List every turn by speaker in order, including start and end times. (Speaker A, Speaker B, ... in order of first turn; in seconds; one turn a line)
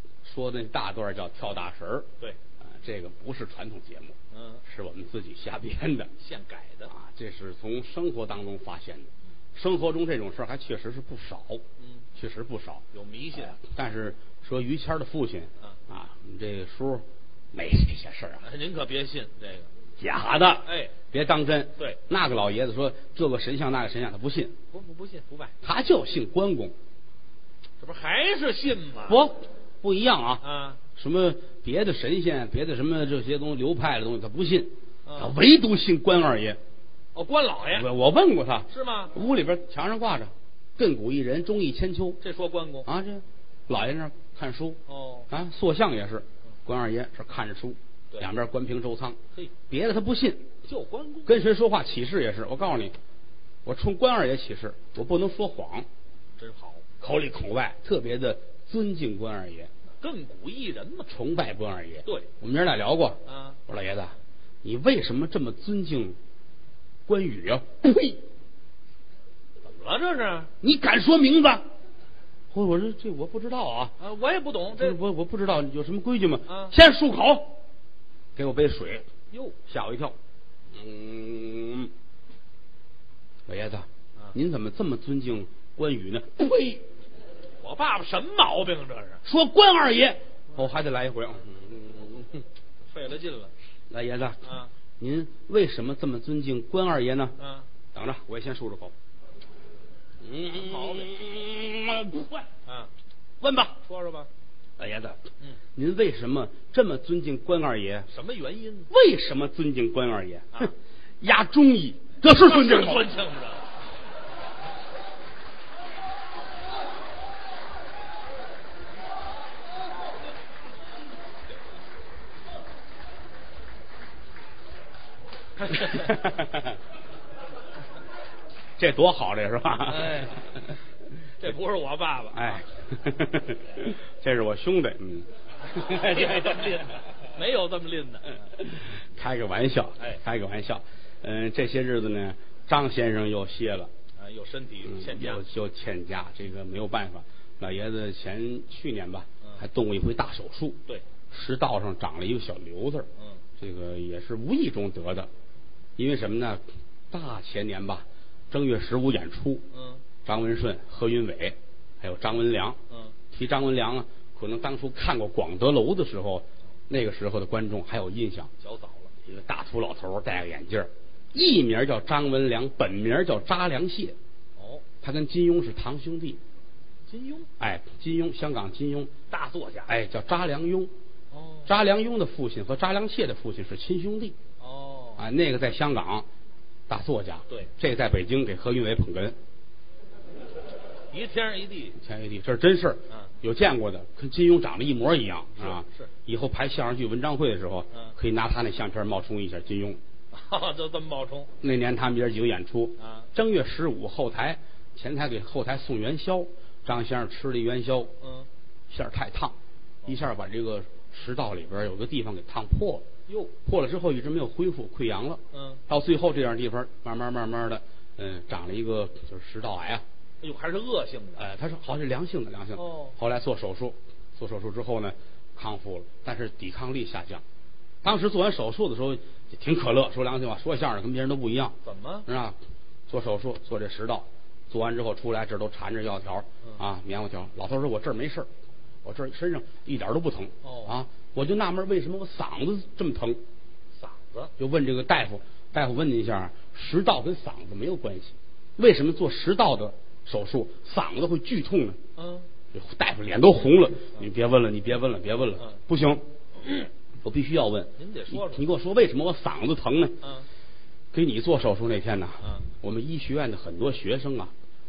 Speaker A: 0.2-2.1
Speaker A: 2.6-6.1
Speaker B: 4.3-4.6
Speaker B: 6.2-6.9
Speaker A: 6.9-11.6
Speaker B: 11.8-12.1
Speaker A: 12.2-18.4
Speaker B: 12.9-13.6
Speaker B: 18.4-19.7
Speaker A: 20.0-24.6
Speaker B: 20.6-20.9
Speaker B: 24.7-25.6
Speaker A: 25.6-26.8
Speaker B: 27.8-29.2
Speaker A: 29.1-30.4
Speaker B: 30.4-30.8
Speaker A: 31.0-36.6
Speaker B: 35.1-35.3
Speaker B: 37.1-37.9
Speaker A: 37.7-42.2
Speaker B: 38.7-39.1
Speaker B: 42.2-42.9
Speaker A: 42.9-44.8
Speaker B: 44.9-45.3
Speaker A: 45.3-49.2
Speaker A: 49.7-50.4
Speaker B: 50.7-51.3
Speaker A: 51.3-53.0
Speaker A: 53.6-55.9
Speaker B: 56.4-56.8
Speaker A: 57.0-59.7
Speaker B: 60.0-61.1
Speaker A: 61.1-66.2
Speaker B: 63.3-63.6
Speaker A: 67.1-68.2
Speaker B: 69.6-70.5
Speaker A: 70.6-71.7
Speaker A: 72.5-74.0
Speaker B: 74.0-75.0
Speaker A: 74.7-77.6
Speaker B: 76.5-76.7
Speaker A: 78.4-79.1
Speaker B: 79.3-79.6
Speaker A: 79.7-80.2
Speaker A: 80.7-81.9
Speaker A: 83.5-86.8
Speaker B: 87.6-89.2
Speaker A: 89.2-92.4
Speaker B: 92.9-93.5
Speaker A: 93.9-94.4
Speaker B: 94.4-94.7
Speaker A: 95.0-97.4
Speaker B: 97.4-97.7
Speaker A: 97.9-98.9
Speaker A: 100.2-102.5
Speaker B: 100.5-101.1
Speaker B: 102.7-102.9
Speaker A: 103.4-103.8
Speaker B: 103.8-104.3
Speaker A: 104.8-105.2
Speaker A: 105.8-108.1
Speaker B: 108.1-108.9
Speaker A: 108.9-113.1
Speaker B: 112.2-113.7
Speaker A: 125.7-126.8
Speaker A: 128.8-130.6
Speaker B: 129.9-130.5
Speaker B: 131.4-132.7
Speaker A: 132.3-136.8
Speaker B: 135.7-138.4
Speaker A: 138.6-143.9
Speaker B: 144.2-145.4
Speaker A: 144.9-150.8
Speaker A: 151.3-153.1
Speaker B: 153.2-153.4
Speaker A: 153.6-155.3
Speaker A: 156.0-159.7
Speaker B: 159.7-160.0
Speaker A: 160.2-162.8
Speaker B: 162.9-163.2
Speaker A: 163.3-168.5
Speaker B: 168.6-169.1
Speaker A: 169.2-174.2
Speaker B: 174.6-174.8
Speaker A: 175.0-176.4
Speaker B: 177.1-177.5
Speaker A: 177.6-179.1
Speaker B: 179.3-179.9
Speaker A: 179.9-180.9
Speaker B: 181.3-181.7
Speaker A: 181.7-184.4
Speaker B: 184.6-185.2
Speaker A: 185.2-186.3
Speaker A: 186.9-189.4
Speaker B: 191.1-192.0
Speaker A: 192.0-200.0
Speaker B: 195.6-196.1
Speaker B: 200.3-201.5
Speaker A: 201.6-208.1
Speaker B: 203.0-203.3
Speaker B: 208.2-208.5
Speaker A: 208.9-213.1
Speaker B: 213.3-213.5
Speaker A: 213.7-220.0
Speaker B: 215.5-215.8
Speaker B: 220.4-221.4
Speaker A: 221.4-227.4
Speaker B: 222.8-223.2
Speaker A: 228.0-232.6
Speaker B: 231.8-232.3
Speaker A: 233.1-238.5
Speaker A: 239.0-243.4
Speaker B: 240.6-241.0
Speaker B: 244.0-244.5
Speaker A: 244.6-252.0
Speaker B: 252.2-252.5
Speaker A: 252.7-256.2
Speaker B: 256.6-256.9
Speaker A: 257.2-260.2
Speaker B: 258.0-258.6
Speaker B: 260.2-260.5
Speaker A: 261.1-264.5
Speaker B: 262.4-262.7